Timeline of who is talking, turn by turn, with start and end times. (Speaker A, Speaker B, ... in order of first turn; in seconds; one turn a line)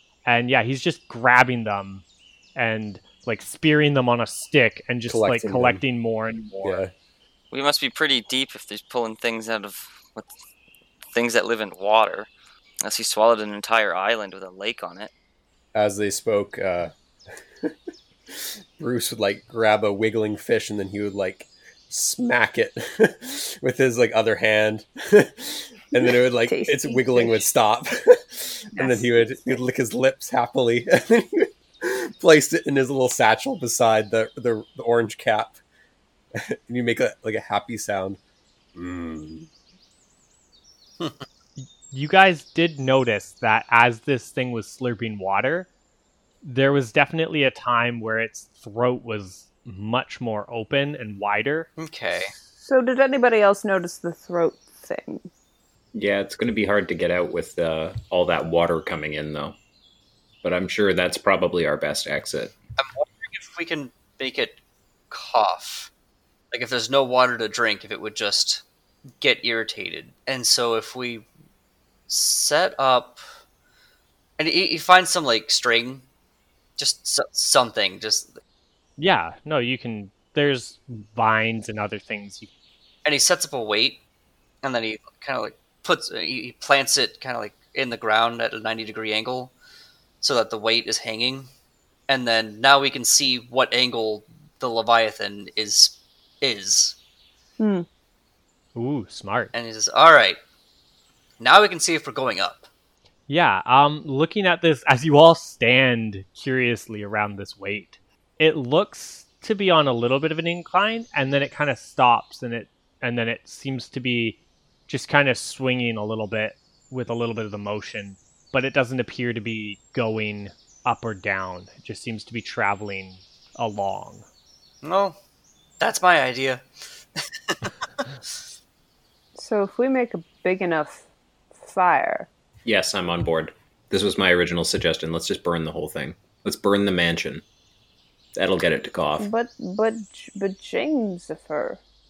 Speaker A: 0.3-2.0
Speaker A: 2.6-6.8
Speaker B: 5.1-5.8
Speaker B: 6.6-6.9
Speaker C: 7.5-10.3
Speaker C: 11.1-12.3
Speaker C: 12.8-15.1
Speaker B: 15.8-16.9
Speaker B: 18.8-35.6
Speaker D: 26.0-27.5
Speaker D: 28.8-29.6
Speaker B: 36.4-38.2
Speaker B: 38.8-39.5
Speaker E: 41.0-41.2
Speaker A: 41.9-45.7
Speaker A: 46.4-51.7
Speaker E: 51.8-52.3
Speaker D: 52.6-55.3
Speaker F: 55.9-59.6
Speaker F: 60.4-62.6
Speaker E: 62.8-64.6
Speaker E: 65.1-65.9
Speaker E: 66.5-68.7
Speaker E: 69.2-71.3
Speaker E: 72.1-73.2
Speaker E: 74.4-76.0
Speaker E: 76.8-78.4
Speaker A: 79.0-82.5
Speaker E: 83.0-84.0
Speaker E: 84.6-89.5
Speaker E: 90.2-91.5
Speaker E: 92.1-97.0
Speaker D: 97.6-97.9
Speaker A: 98.8-99.5
Speaker E: 99.5-100.4
Speaker E: 101.4-102.7
Speaker A: 103.3-124.3
Speaker E: 124.8-125.2
Speaker E: 125.8-128.1
Speaker D: 129.4-132.3
Speaker F: 132.7-137.4
Speaker F: 138.3-139.3
Speaker D: 139.2-141.8